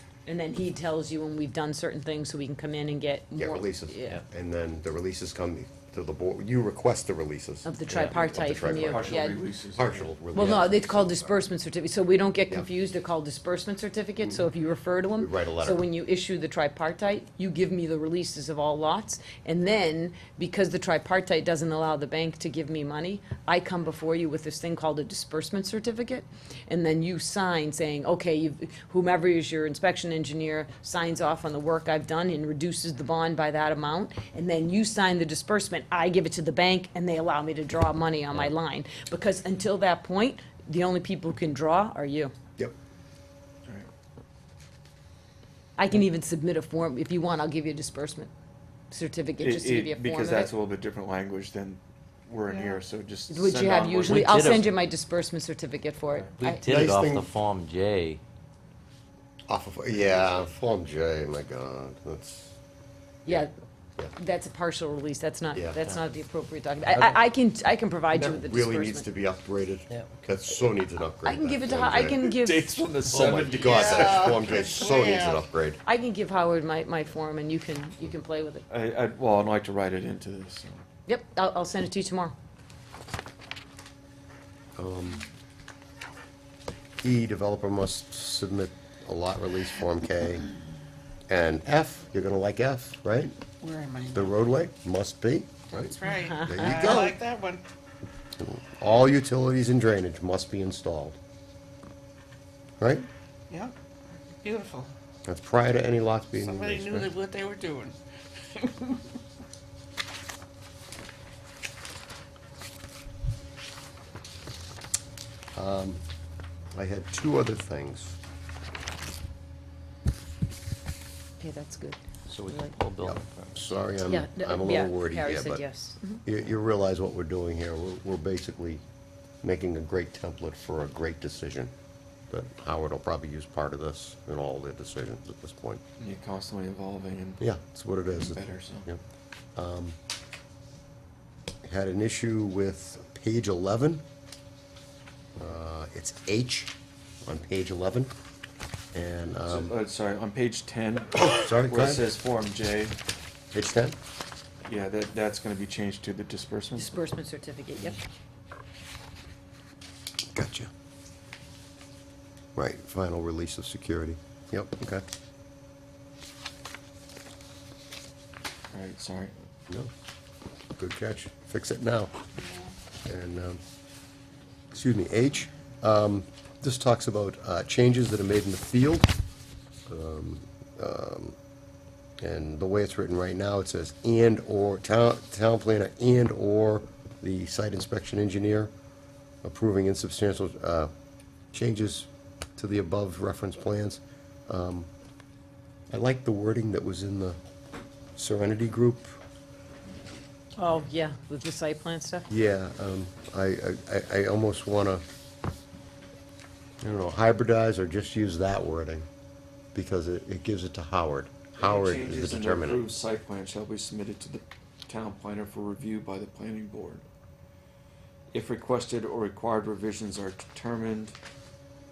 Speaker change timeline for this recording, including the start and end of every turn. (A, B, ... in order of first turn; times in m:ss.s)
0:00.2-0:04.2 A
0:03.3-0:11.4 B
0:07.6-0:09.4 A
0:07.9-0:08.4 C
0:08.3-0:10.5 D
0:10.3-0:42.3 A
0:15.2-0:15.9 B
0:45.8-0:48.3 A
0:48.9-0:50.5 A
0:49.4-0:54.6 D
0:52.5-0:52.8 E
0:53.3-0:56.7 A
0:54.0-0:54.7 C
0:56.4-0:58.2 C
0:56.6-0:57.3 B
0:59.5-1:02.6 B
1:03.2-1:03.5 A
1:04.2-1:09.1 A
1:06.9-1:07.2 B
1:08.1-1:12.2 B
1:11.2-1:12.9 A
1:12.2-1:14.7 D
1:13.1-1:13.6 C
1:13.1-1:15.8 B
1:13.5-1:15.4 E
1:15.8-1:18.6 A
1:18.7-1:20.8 D
1:21.1-1:22.3 A
1:24.8-1:25.2 B
1:27.0-1:30.4 B
1:31.3-1:33.3 B
1:33.6-1:34.3 E
1:34.1-1:37.2 B
1:35.7-1:37.6 E
1:36.0-1:37.0 A
1:38.4-1:41.2 B
1:42.8-1:43.0 B
1:43.5-1:43.7 E
1:44.4-1:44.9 E
1:45.2-1:47.1 B
1:46.4-1:48.0 E
1:48.5-1:49.0 E
1:55.5-1:56.0 B
1:56.7-1:58.2 B
2:01.4-2:02.7 A
2:02.3-2:03.7 C
2:03.0-2:05.6 B
2:04.1-2:06.2 A
2:06.2-2:08.8 B
2:09.4-2:11.7 B
2:12.3-2:15.8 B
2:16.0-2:17.4 D
2:17.4-2:19.0 B
2:18.1-2:18.9 D
2:19.6-2:20.0 B
2:21.6-2:24.0 B
2:25.4-2:26.7 B
2:27.2-2:28.1 B
2:28.9-2:29.8 B
2:29.4-2:33.0 D
2:31.2-2:32.1 B
2:33.5-2:34.0 B
2:34.6-2:36.9 D
2:36.8-2:38.0 A
2:40.3-2:40.7 B
2:42.6-2:45.0 B
2:48.7-2:49.4 D
2:50.8-2:52.1 B
2:53.0-2:53.6 B
2:54.7-2:59.1 B
2:59.9-3:01.4 B
3:02.2-3:08.7 B
3:09.4-3:10.9 B
3:11.5-3:14.9 B
3:15.9-3:17.4 B
3:18.2-3:19.2 B
3:20.6-3:22.3 A
3:22.3-3:25.0 B
3:26.8-3:29.0 B
3:29.7-3:32.9 B
3:31.6-3:37.0 D
3:38.3-3:41.2 D